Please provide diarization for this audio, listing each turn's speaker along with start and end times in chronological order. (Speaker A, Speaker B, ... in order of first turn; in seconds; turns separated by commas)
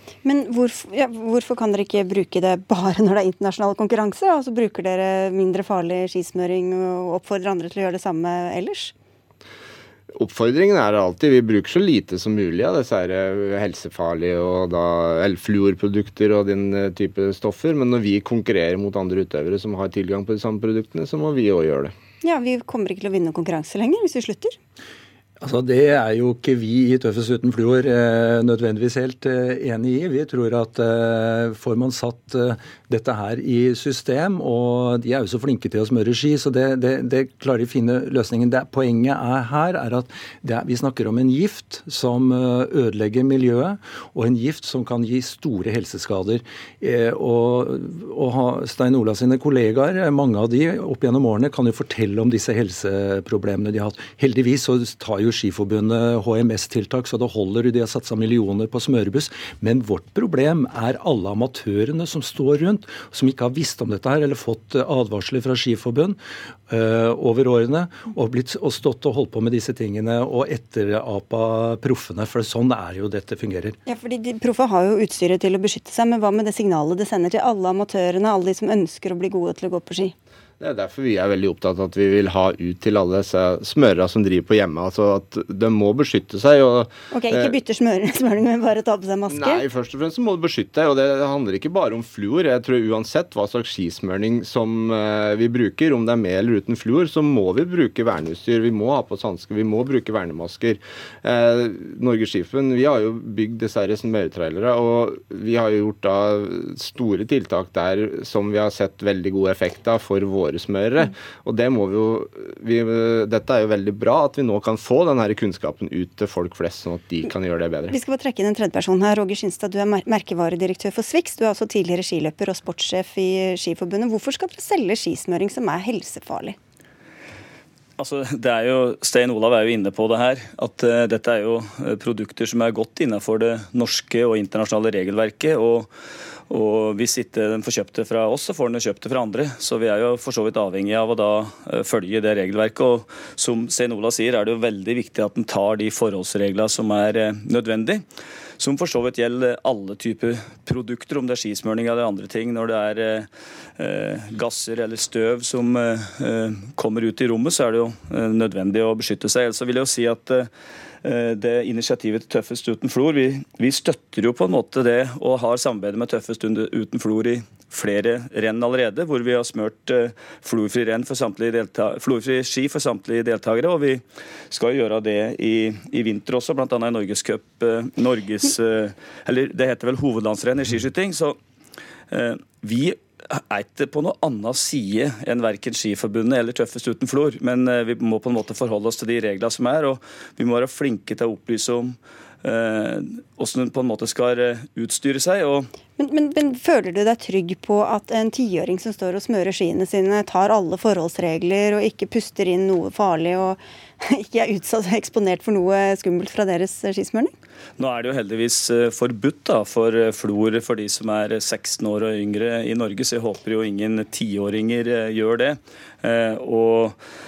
Speaker A: 0.2-8.9, Speaker B: 10.1-21.9, Speaker A: 22.2-24.6, Speaker C: 25.4-73.8, Speaker A: 73.9-80.1, Speaker B: 80.6-87.5, Speaker A: 87.1-89.6, Speaker B: 89.3-118.0, Speaker A: 117.9-126.6, Speaker D: 128.0-135.9, Speaker D: 136.5-148.0, Speaker D: 148.6-160.5, Speaker D: 161.0-181.4, Speaker D: 182.1-195.7, Speaker A: 196.0-207.3, Speaker D: 207.8-217.0